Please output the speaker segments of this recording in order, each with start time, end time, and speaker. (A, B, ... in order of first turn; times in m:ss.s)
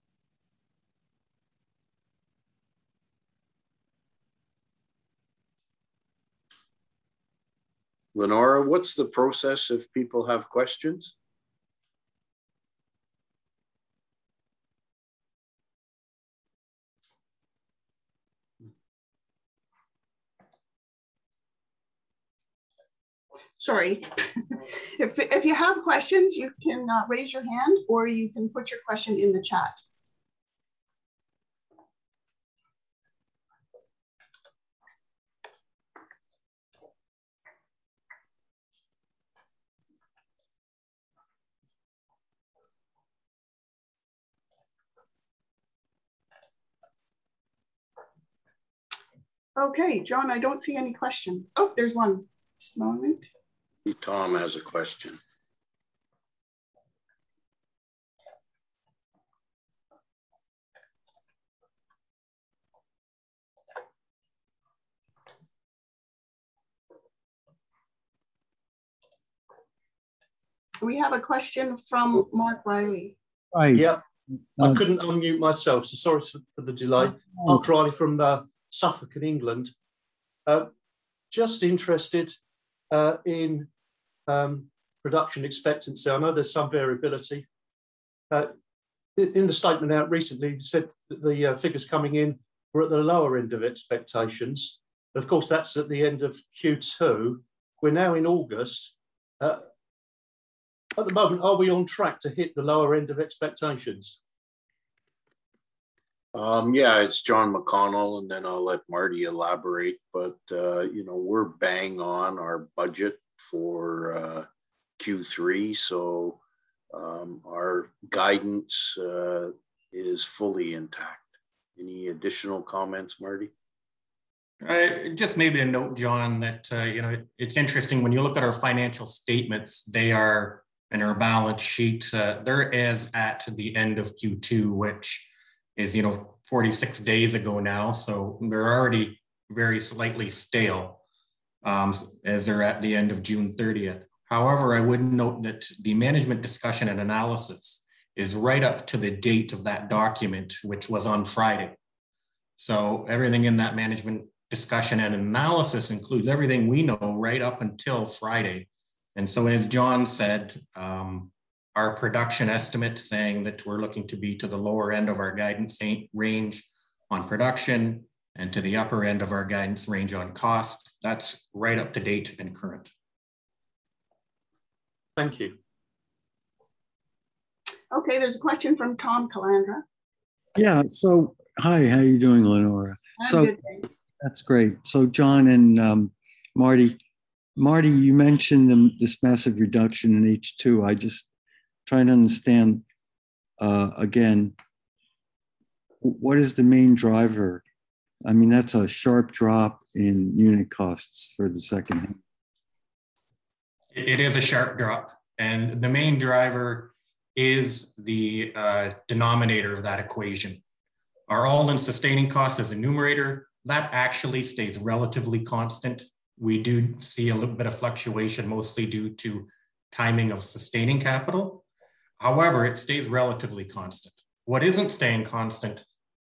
0:08.1-0:11.1 A
0:23.6-0:29.8 B
0:49.6-0:53.3 B
0:53.8-0:55.2 A
1:10.8-1:13.2 B
1:13.5-1:13.9 C
1:13.7-1:14.0 D
1:14.6-1:19.7 D
1:21.3-1:22.4 D
1:22.9-1:23.7 D
1:24.3-1:27.4 D
1:29.2-1:39.6 D
1:41.0-1:44.2 D
1:46.3-1:54.5 A
1:55.0-1:56.4 A
1:56.9-2:03.5 A
2:04.6-2:21.0 E
2:21.6-2:31.8 E
2:32.6-2:52.9 E
2:55.2-2:55.6 D
2:57.9-2:59.8 B
3:00.6-3:03.5 C
3:03.2-3:03.9 B
3:04.2-3:07.0 C
3:07.6-3:11.3 C
3:11.8-3:12.8 C
3:13.6-3:14.5 C
3:16.0-3:17.6 C
3:18.2-3:22.2 C
3:23.9-3:30.6 E
3:31.3-3:41.6 E
3:42.2-3:45.8 E